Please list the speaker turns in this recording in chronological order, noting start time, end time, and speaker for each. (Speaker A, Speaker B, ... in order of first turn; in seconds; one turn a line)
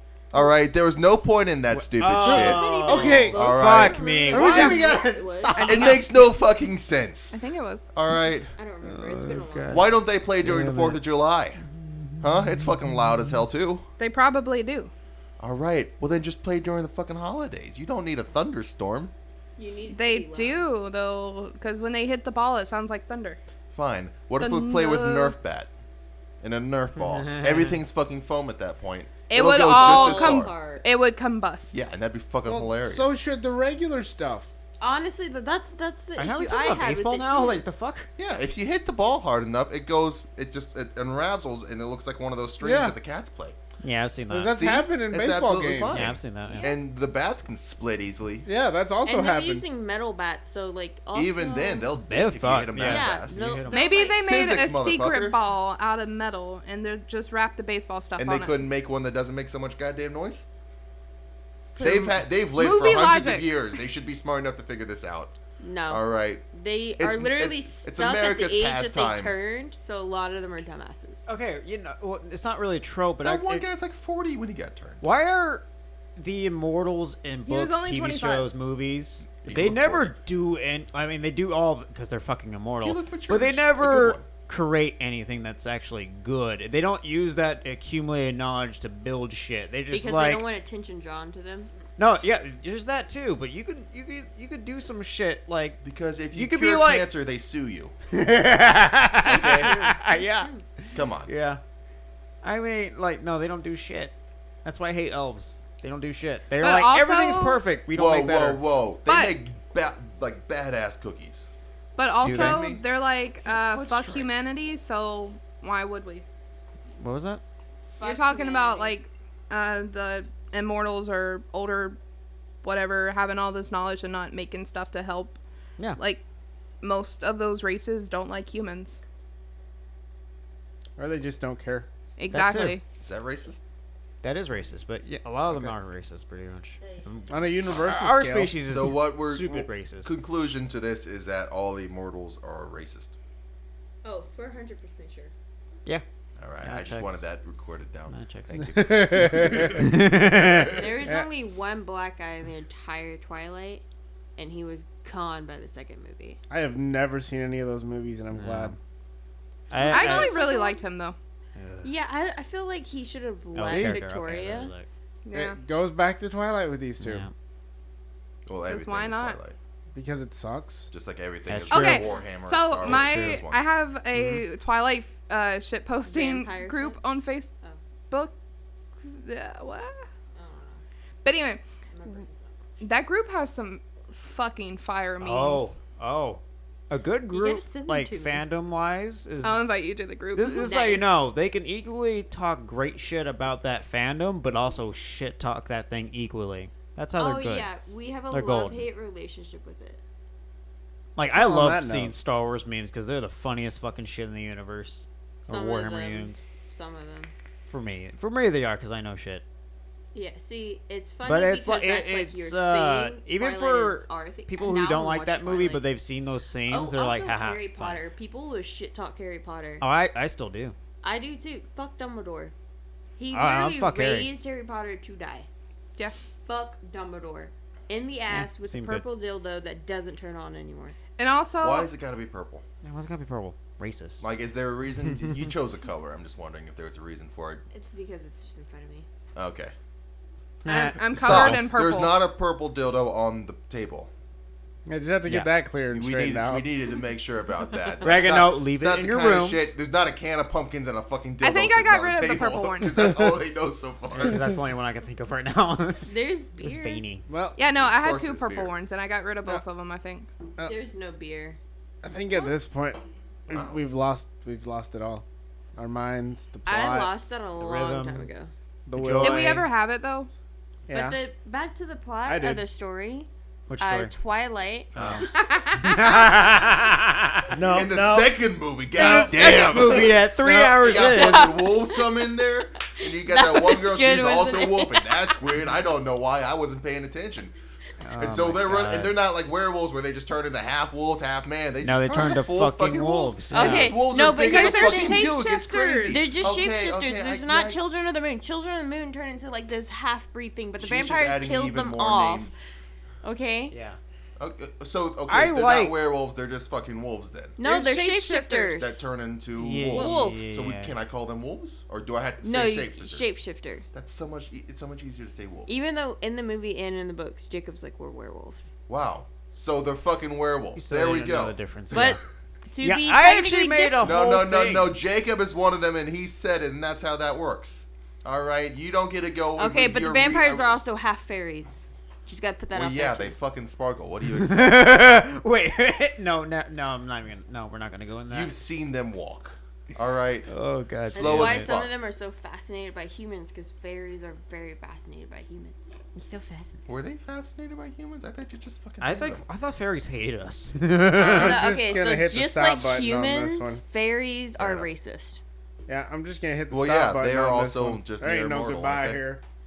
Speaker A: 0.3-2.7
Speaker B: 1.7-6.0
Speaker C: 2.2-5.6
Speaker D: 2.3-3.6
Speaker A: 3.3-4.0
Speaker D: 4.3-5.1
Speaker E: 5.5-6.2
Speaker A: 5.5-7.4
Speaker E: 7.3-7.9
Speaker A: 7.9-8.5
Speaker C: 8.6-10.0
Speaker B: 8.8-11.1
Speaker A: 9.7-11.6
Speaker B: 11.6-13.4
Speaker A: 12.2-13.8
Speaker E: 14.0-14.9
Speaker A: 15.4-19.1
Speaker C: 19.6-20.7
Speaker E: 19.9-23.4
Speaker A: 23.7-25.7
Speaker E: 24.4-25.3
Speaker A: 26.4-30.6
Speaker B: 27.0-27.8
Speaker E: 29.3-31.7
Speaker C: 29.4-30.8
Speaker A: 31.7-33.2
Speaker D: 32.5-34.5
Speaker C: 34.8-37.6
Speaker B: 36.2-38.1
Speaker A: 38.2-43.6
Speaker D: 42.6-43.0
Speaker B: 43.8-44.7
Speaker D: 44.3-46.1
Speaker A: 44.5-48.5
Speaker B: 45.9-46.7
Speaker C: 46.4-46.8
Speaker D: 48.4-49.6
Speaker C: 49.0-51.9
Speaker A: 51.1-53.6
Speaker B: 52.0-53.9
Speaker C: 52.7-54.4
Speaker E: 53.7-58.6
Speaker A: 54.2-55.4
Speaker A: 58.2-60.5
Speaker E: 61.8-63.5
Speaker A: 61.8-65.3
Speaker C: 65.6-71.2
Speaker A: 65.9-66.4
Speaker A: 67.0-69.3
Speaker B: 71.3-73.6
Speaker A: 73.2-75.0
Speaker B: 75.0-75.6
Speaker B: 76.2-90.4
Speaker E: 77.5-78.5
Speaker A: 79.4-80.1
Speaker A: 82.8-84.3
Speaker C: 89.9-91.7
Speaker B: 92.0-97.1
Speaker A: 95.8-97.9
Speaker B: 98.1-101.6
Speaker C: 99.2-100.6
Speaker A: 99.2-99.8
Speaker A: 100.9-101.3
Speaker B: 102.4-108.7
Speaker E: 106.6-107.6
Speaker A: 107.9-111.5
Speaker E: 109.0-109.4
Speaker E: 112.0-116.2
Speaker B: 112.2-112.7
Speaker A: 112.2-112.8
Speaker A: 113.4-114.5
Speaker B: 117.0-117.4
Speaker C: 118.0-119.0
Speaker E: 118.0-122.0
Speaker E: 122.6-125.4
Speaker E: 126.0-126.2
Speaker E: 126.8-129.0
Speaker D: 131.0-131.9
Speaker E: 132.2-132.8
Speaker B: 132.3-132.8
Speaker A: 133.0-133.6
Speaker B: 134.2-140.1
Speaker A: 135.4-135.7
Speaker C: 136.8-137.1
Speaker D: 137.3-138.7
Speaker A: 138.7-143.2
Speaker C: 144.0-145.3
Speaker A: 146.4-150.8
Speaker B: 146.6-147.2
Speaker B: 148.1-150.8
Speaker D: 148.6-149.9
Speaker C: 150.7-153.8
Speaker C: 154.4-156.4
Speaker D: 156.5-158.8
Speaker B: 158.3-158.7
Speaker B: 159.7-160.4
Speaker C: 159.8-160.8
Speaker E: 159.9-161.2
Speaker B: 161.6-161.9
Speaker C: 161.8-164.7
Speaker B: 163.5-164.9
Speaker D: 163.6-164.0
Speaker E: 165.2-165.6
Speaker D: 165.3-167.3
Speaker B: 167.0-167.3
Speaker A: 168.4-169.6
Speaker E: 168.7-169.4
Speaker D: 169.9-170.9
Speaker A: 170.9-173.7
Speaker B: 171.5-172.0
Speaker E: 171.7-177.5
Speaker B: 172.8-173.4
Speaker B: 174.1-174.4
Speaker C: 176.0-177.8
Speaker E: 179.0-180.1
Speaker C: 180.3-180.8
Speaker E: 181.2-182.2
Speaker C: 181.9-182.8
Speaker E: 182.8-185.8
Speaker B: 185.2-189.7
Speaker C: 187.3-188.4
Speaker E: 189.4-190.7
Speaker B: 190.3-197.7
Speaker C: 190.5-191.0
Speaker C: 197.2-200.0
Speaker B: 198.3-198.9
Speaker B: 201.2-206.4
Speaker D: 201.3-202.2
Speaker C: 205.5-207.3
Speaker B: 207.7-209.4
Speaker C: 210.1-215.8
Speaker B: 211.2-218.0
Speaker C: 216.7-219.8
Speaker B: 219.8-220.8
Speaker C: 221.0-222.5
Speaker C: 223.2-225.5
Speaker B: 223.3-224.3
Speaker C: 226.4-230.9
Speaker B: 228.3-229.0
Speaker E: 231.2-231.9
Speaker A: 231.6-232.6
Speaker B: 232.8-234.2
Speaker A: 234.2-237.6
Speaker B: 235.0-235.3
Speaker C: 237.7-239.1
Speaker A: 239.3-239.7
Speaker B: 240.6-241.7
Speaker E: 240.7-242.2
Speaker A: 241.0-244.1
Speaker D: 244.9-246.7
Speaker B: 245.2-245.6
Speaker A: 245.9-254.4
Speaker B: 248.0-249.6
Speaker E: 251.4-253.1
Speaker D: 253.0-253.3
Speaker B: 254.1-257.2
Speaker C: 256.0-257.0
Speaker D: 257.3-257.6
Speaker E: 257.6-260.3
Speaker A: 257.7-258.7
Speaker C: 260.6-261.6
Speaker D: 262.0-265.2
Speaker A: 263.5-263.8
Speaker D: 265.8-267.1
Speaker C: 266.6-268.5
Speaker B: 267.6-268.3
Speaker D: 268.9-269.6
Speaker B: 268.9-269.7
Speaker E: 269.2-270.3
Speaker D: 270.9-271.2
Speaker C: 270.9-276.1
Speaker D: 272.2-272.6
Speaker B: 273.7-274.1
Speaker A: 274.9-275.3
Speaker B: 274.9-277.6
Speaker D: 277.5-278.4
Speaker A: 277.6-287.5
Speaker B: 278.9-281.5
Speaker D: 278.9-280.8
Speaker C: 280.9-282.0
Speaker C: 282.9-285.3
Speaker B: 288.0-289.2
Speaker A: 288.2-297.8
Speaker B: 291.8-294.0
Speaker C: 293.5-295.3
Speaker E: 294.2-296.3
Speaker C: 296.1-302.6
Speaker A: 300.8-302.6
Speaker C: 303.2-303.7
Speaker B: 303.7-304.0
Speaker A: 304.4-307.6
Speaker B: 305.3-305.9
Speaker C: 307.6-309.0
Speaker E: 307.6-308.8
Speaker A: 308.7-313.4
Speaker B: 309.6-310.9
Speaker C: 309.9-310.7
Speaker C: 312.4-313.9
Speaker A: 313.9-315.8
Speaker C: 315.7-318.7
Speaker A: 318.9-322.2
Speaker B: 320.8-322.2
Speaker C: 321.9-322.2
Speaker C: 322.7-324.1
Speaker B: 322.8-325.0
Speaker A: 324.0-330.8
Speaker C: 329.6-333.3
Speaker A: 332.7-335.1
Speaker B: 334.4-338.5
Speaker A: 338.3-340.5
Speaker B: 340.5-341.7
Speaker A: 341.0-342.0
Speaker C: 341.1-346.7
Speaker A: 346.9-349.4
Speaker B: 349.0-351.7
Speaker D: 351.1-353.8
Speaker C: 351.3-355.4
Speaker A: 354.6-354.9
Speaker D: 355.9-359.4
Speaker A: 356.7-359.2